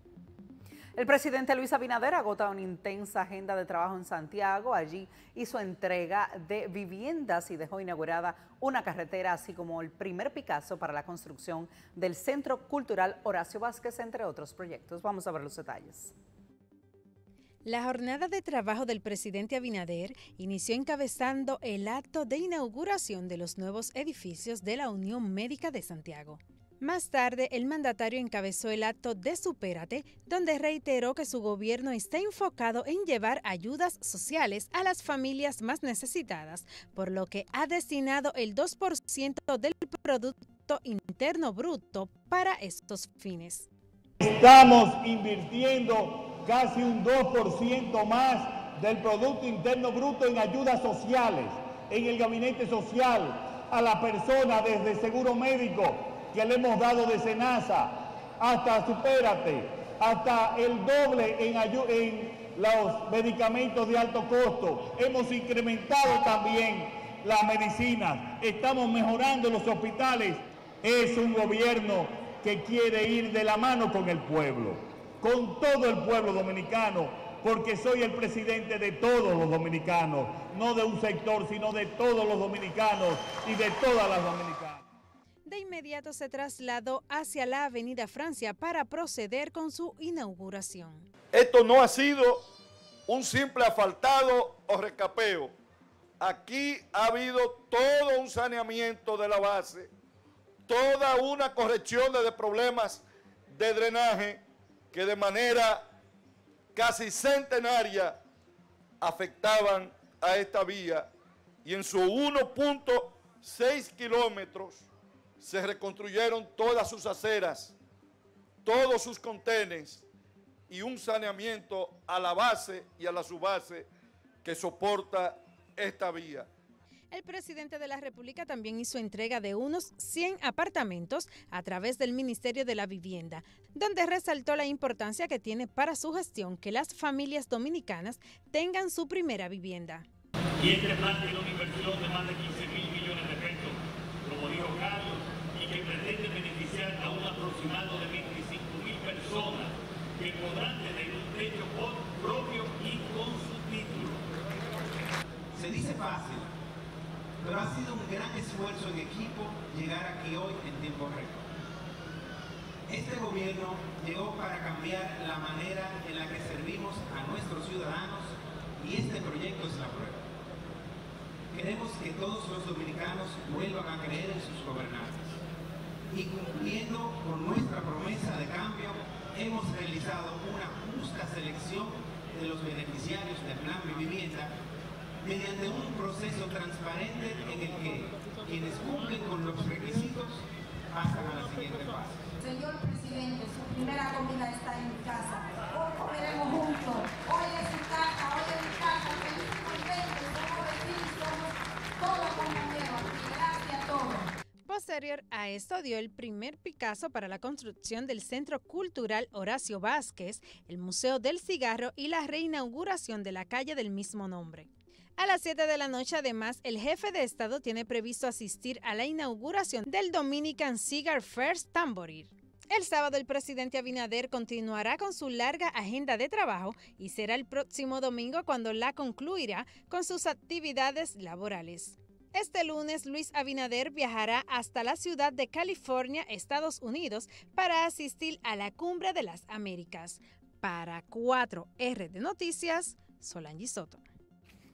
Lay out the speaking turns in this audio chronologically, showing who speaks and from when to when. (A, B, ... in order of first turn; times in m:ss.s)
0:01.0-0:16.1 A
0:17.6-0:43.7 B
0:44.2-1:24.8 C
1:25.4-1:31.0 B
1:31.3-1:32.5 D
1:33.1-1:35.5 D
1:36.2-1:39.9 D
1:40.7-1:44.4 D
1:44.9-1:45.8 D
1:46.8-1:48.2 D
1:49.0-1:51.1 D
1:51.6-1:54.9 D
1:55.4-1:57.8 D
1:58.6-2:00.0 D
2:00.7-2:03.9 D
2:04.4-2:06.5 D
2:07.1-2:20.1 B
2:20.6-2:34.2 E
2:35.5-2:36.5 F
2:37.4-2:41.4 F
2:42.9-2:50.2 F
2:51.5-2:55.4 F
2:56.1-3:04.5 F
3:05.2-3:12.3 F
3:12.4-3:24.3 G
3:24.7-4:04.0 B